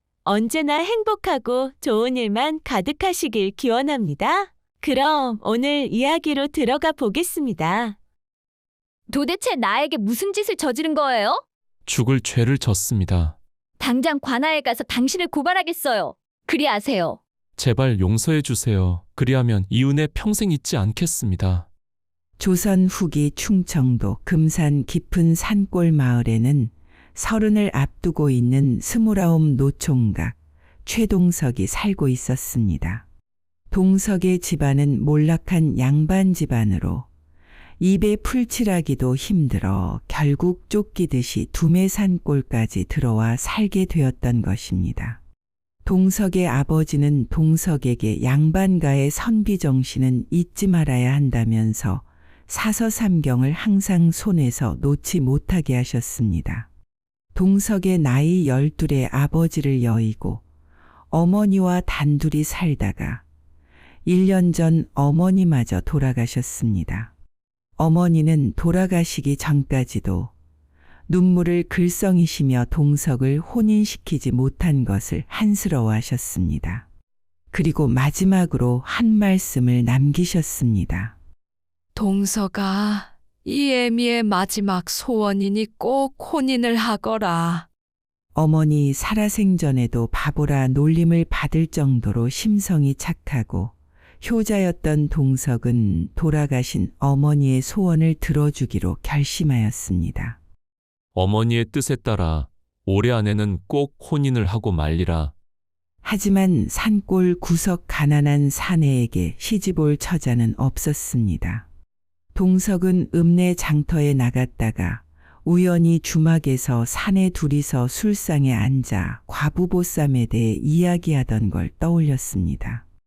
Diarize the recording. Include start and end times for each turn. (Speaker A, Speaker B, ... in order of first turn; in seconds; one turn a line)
Speaker A: 0.2-8.0
Speaker B: 9.1-11.4
Speaker C: 11.9-13.4
Speaker B: 13.8-17.2
Speaker C: 17.6-21.7
Speaker D: 22.4-33.0
Speaker D: 33.7-37.1
Speaker D: 37.8-45.2
Speaker D: 45.8-56.7
Speaker D: 57.3-60.4
Speaker D: 61.1-63.2
Speaker D: 64.0-67.1
Speaker D: 67.8-70.3
Speaker D: 71.1-76.8
Speaker D: 77.5-81.1
Speaker E: 81.9-87.7
Speaker D: 88.3-100.4
Speaker C: 101.1-105.3
Speaker D: 106.0-111.6
Speaker D: 112.3-122.8